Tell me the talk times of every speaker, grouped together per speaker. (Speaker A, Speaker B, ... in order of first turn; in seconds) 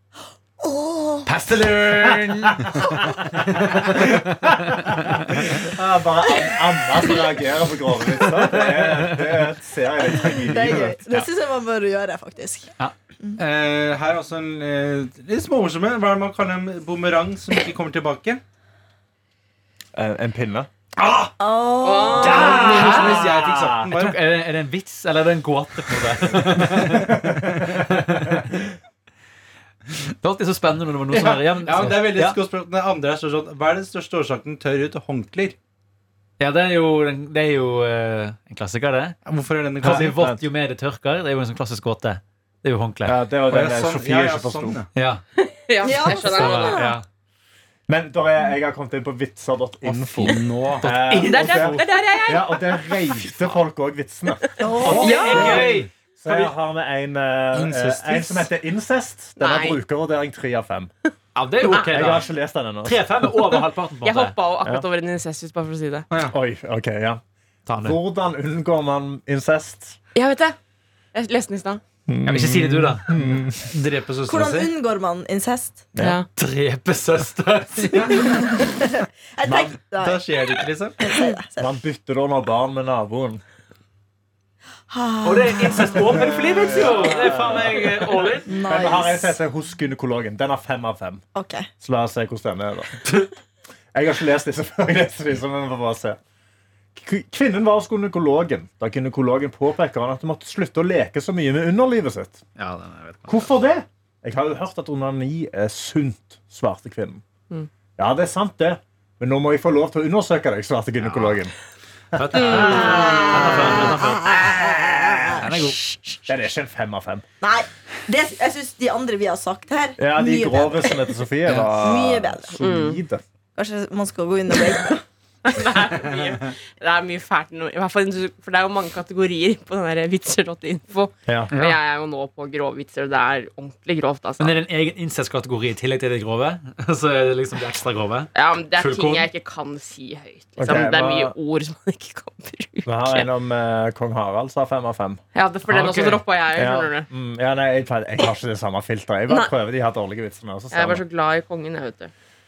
Speaker A: 0.6-1.3, 10.2-12.7, 21.4-22.8, 45.8-47.0, 54.6-55.7, 74.3-75.9, 78.3-81.8, 84.9-87.1, 88.5-89.4, 91.3-91.7, 112.5-116.2, 117.4-121.0, 121.8-122.6, 123.6-125.0
Speaker B: 1.3-5.4, 8.6-9.2, 22.2-28.5, 30.2-32.4, 36.4-39.2, 39.8-43.2, 45.0-45.2, 45.9-47.0, 50.8-51.9, 54.8-56.5, 61.4-62.3, 62.8-64.3, 67.7-68.0, 72.3-74.0, 76.4-78.6, 85.2-88.6, 102.6-103.5, 111.1-111.4, 112.2-114.8, 115.3-115.9, 131.5-131.8, 134.4-139.3, 145.7-146.2
Speaker C: 2.0-2.9, 3.6-11.0, 19.9-21.3, 22.2-23.9, 26.9-27.9, 39.8-40.4, 43.1-44.8, 47.9-60.9, 61.6-63.0, 66.3-67.2, 67.8-70.0, 72.1-73.6, 79.5-79.7, 81.6-83.4, 86.0-91.2, 91.8-93.1, 93.9-96.2, 97.0-102.4, 103.3-107.2, 108.0-111.5, 112.1-115.4, 116.3-117.2, 120.0-123.2, 140.6-141.3, 142.9-145.2, 146.6-151.0
Speaker D: 13.4-18.4, 22.3-24.2, 31.1-35.6, 39.2-40.1, 43.5-44.9, 49.9-50.9, 54.8-55.9, 57.5-58.5, 73.6-74.7, 80.0-81.2, 121.5-121.8
Speaker E: 21.8-22.7, 45.4-46.9, 51.2-53.2, 55.0-55.7, 59.4-59.8, 64.0-66.1, 70.2-70.6, 71.1-71.8, 76.0-76.3, 122.6-123.0, 125.5-134.5, 138.3-143.3, 145.3-147.1, 150.7-152.1